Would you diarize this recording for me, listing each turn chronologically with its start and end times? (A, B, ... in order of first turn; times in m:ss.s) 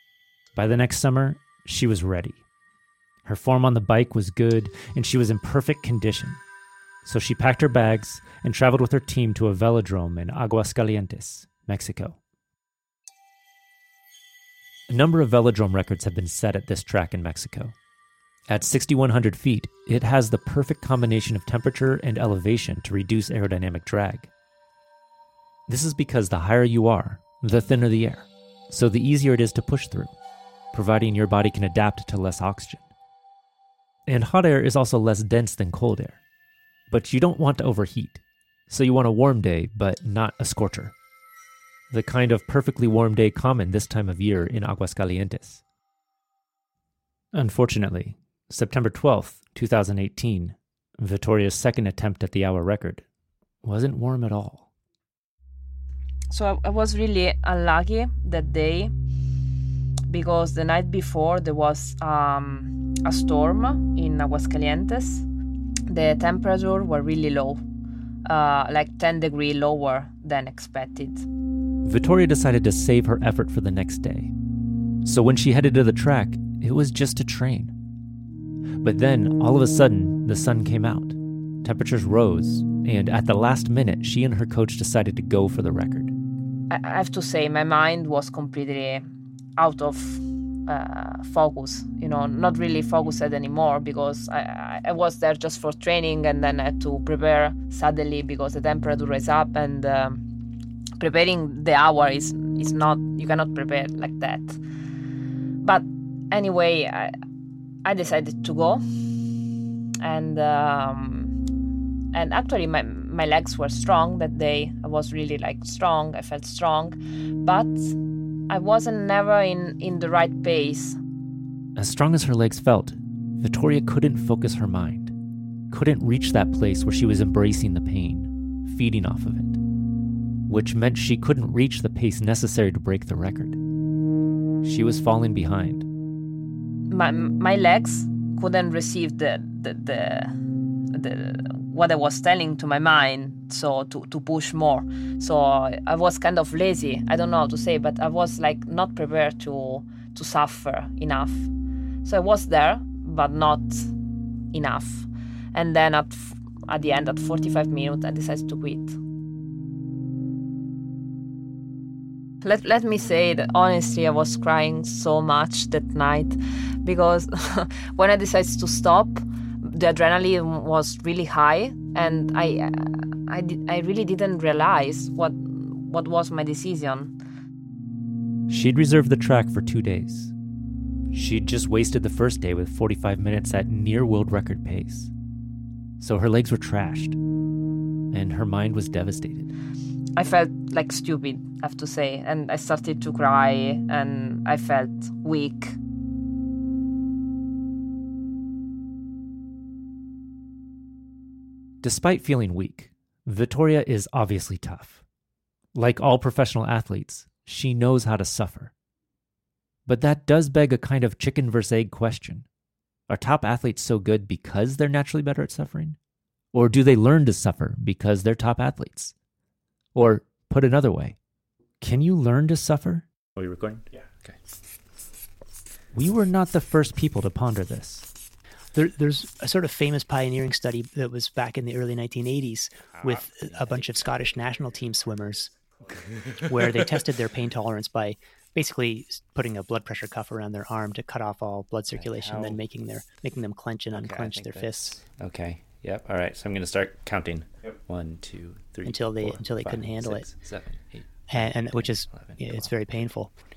0:00.5-0:02.4 A
0:03.2-0:06.4 A
0:07.0-0:12.2 A
0:14.9-0:17.7 A
0:18.5-0:24.3 A
0:25.7-0:30.1 A
0:30.7-0:32.8 A
0:34.0-0:36.2 A
0:36.9-0:40.9 A
0:41.9-0:45.6 A
0:47.3-0:53.0 A
0:53.6-0:54.6 A
0:56.3-0:58.9 B
1:00.1-1:05.2 B
1:05.9-1:07.6 B
1:08.2-1:11.2 B
1:11.8-1:14.3 A
1:15.0-1:17.8 A
1:18.8-1:26.1 A
1:26.7-1:29.0 B
1:29.6-1:40.2 B
1:41.0-1:44.6 B
1:45.6-1:47.1 B
1:47.8-1:48.8 B
1:50.0-1:51.4 B
1:52.1-1:58.0 B
1:58.5-2:01.0 B
2:01.8-2:05.1 A
2:05.7-2:09.6 A
2:10.5-2:13.6 A
2:14.6-2:15.9 A
2:16.9-2:20.4 B
2:20.9-2:31.5 B
2:32.0-2:33.9 B
2:34.5-2:39.0 B
2:42.4-2:57.1 B
2:58.5-3:00.3 A
3:01.1-3:05.1 A
3:06.0-3:07.2 A
3:08.1-3:09.5 A
3:10.2-3:15.8 B
3:21.8-3:25.0 A
3:25.7-3:28.7 A
3:29.8-3:32.4 A
3:33.1-3:36.0 A
3:36.5-3:39.1 A
3:39.9-3:41.2 A
3:41.8-3:43.0 A
3:43.4-3:44.4 C
3:45.9-3:48.1 A
3:48.7-3:55.5 D
3:55.9-3:57.0 C
3:56.4-4:05.0 D
4:01.9-4:02.6 C
4:03.9-4:12.8 C
4:08.8-4:10.3 D
4:11.3-4:13.3 D